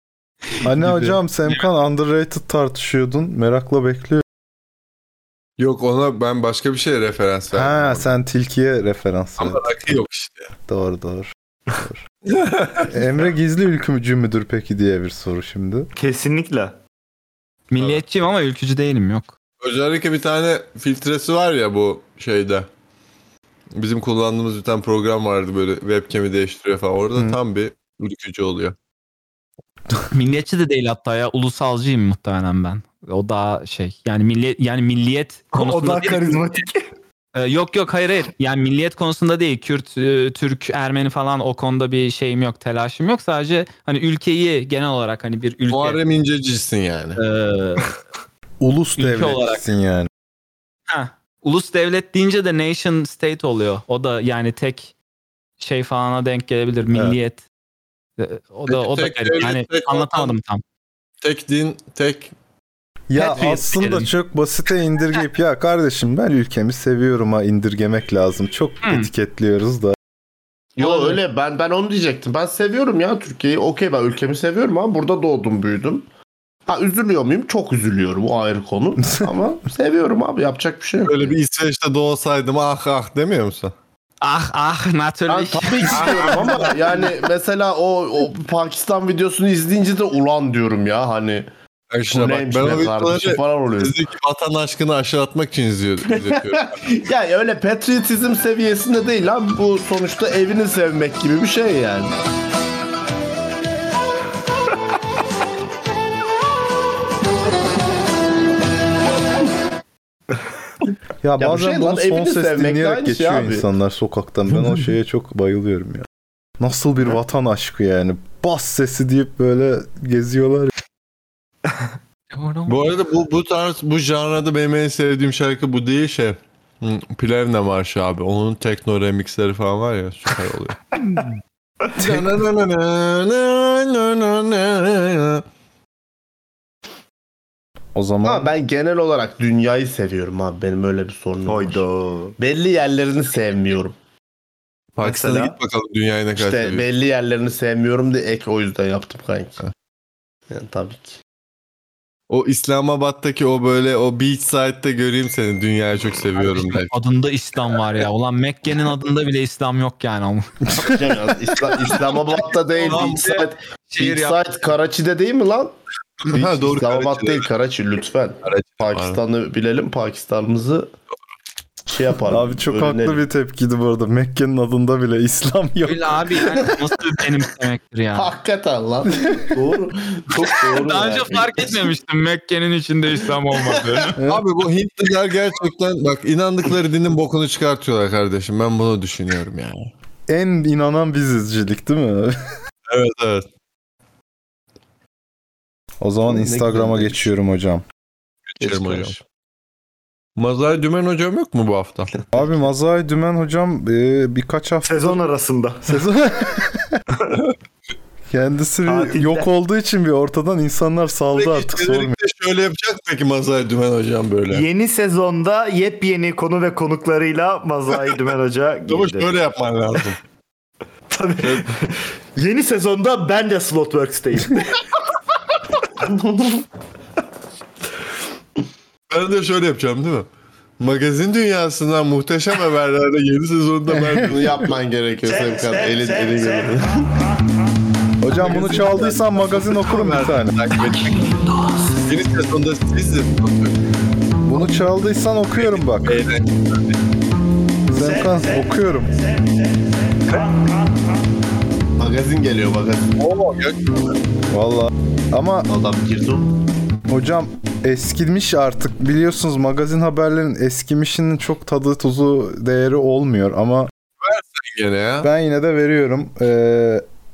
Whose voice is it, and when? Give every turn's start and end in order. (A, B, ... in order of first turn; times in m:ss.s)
0:00.6-0:01.6 A
0:00.6-0:04.2 B
0:05.6-0:08.1 C
0:07.5-0:09.7 B
0:09.4-0:10.5 C
0:10.7-0:12.0 B
0:12.3-0:12.9 C
0:12.9-0:15.9 B
0:15.9-0:16.8 D
0:17.7-0:19.3 A
0:19.6-0:22.7 C
0:23.7-0:28.8 C
0:30.1-0:36.6 A
0:35.5-0:36.9 D
0:37.3-0:46.0 A
0:45.7-0:47.2 C
0:47.2-0:47.9 A
0:48.6-0:50.1 B
0:49.0-0:49.6 A
0:50.9-0:54.9 A
0:55.6-0:57.4 A
0:56.9-0:57.2 B
0:58.2-1:00.6 A
0:58.7-1:00.3 C
1:01.2-1:02.3 C
1:03.1-1:10.0 B
1:03.2-1:04.1 A
1:08.8-1:09.1 A
1:10.8-1:16.0 E
1:10.8-1:11.2 A
1:16.7-1:21.3 E
1:21.0-1:23.7 C
1:24.2-1:26.6 A
1:25.3-1:31.5 E
1:25.9-1:26.7 C
1:31.9-1:36.7 C
1:32.1-1:33.9 E
1:36.2-1:42.1 E
1:51.2-1:56.1 B
1:51.4-1:53.6 E
1:56.6-2:00.7 B
2:02.3-2:02.8 A
2:02.7-2:10.8 C
2:11.9-2:15.4 C
2:17.9-2:18.5 B
2:18.2-2:21.8 E
2:21.4-2:22.4 D
2:22.4-2:24.0 E
2:25.0-2:26.8 C
2:25.0-2:25.5 D
2:26.4-2:29.6 E
2:30.5-2:31.2 E
2:32.3-2:37.0 C
2:36.4-2:40.7 A
2:40.7-2:45.7 E
2:42.7-2:44.4 A
2:46.2-2:47.5 C
2:46.3-2:50.9 E
2:48.4-2:49.2 C
2:51.9-2:53.2 E
2:52.3-2:56.2 B
2:55.8-2:58.3 A
2:58.1-3:01.8 E
3:00.7-3:04.2 A
3:04.2-3:04.4 B
3:04.2-3:09.9 C
3:10.3-3:12.3 B
3:12.9-3:13.5 C
3:16.0-3:17.8 B
3:16.3-3:17.3 E
3:18.5-3:19.2 C
3:18.6-3:19.2 E
3:20.4-3:22.1 C
3:22.3-3:25.2 B
3:24.8-3:25.9 D
3:25.8-3:27.0 B
3:28.3-3:32.2 B
3:28.8-3:29.5 D
3:31.3-3:34.6 C
3:34.5-3:39.4 D
3:38.9-3:40.2 C
3:41.1-3:44.8 D
3:41.4-3:41.7 C
3:46.1-3:46.4 E
3:49.1-3:50.3 C
3:50.8-3:54.4 C
3:53.9-3:54.3 B
3:54.2-3:57.2 E
3:58.2-4:00.6 B
3:58.3-4:01.3 C
4:02.0-4:03.8 C
4:04.4-4:06.2 B
4:05.6-4:07.0 C
4:07.9-4:09.2 B
4:12.0-4:13.1 E
4:13.2-4:13.9 C
4:14.5-4:15.7 B
4:15.7-4:16.5 E
4:17.1-4:23.9 B
4:24.2-4:25.3 C
4:25.2-4:27.0 B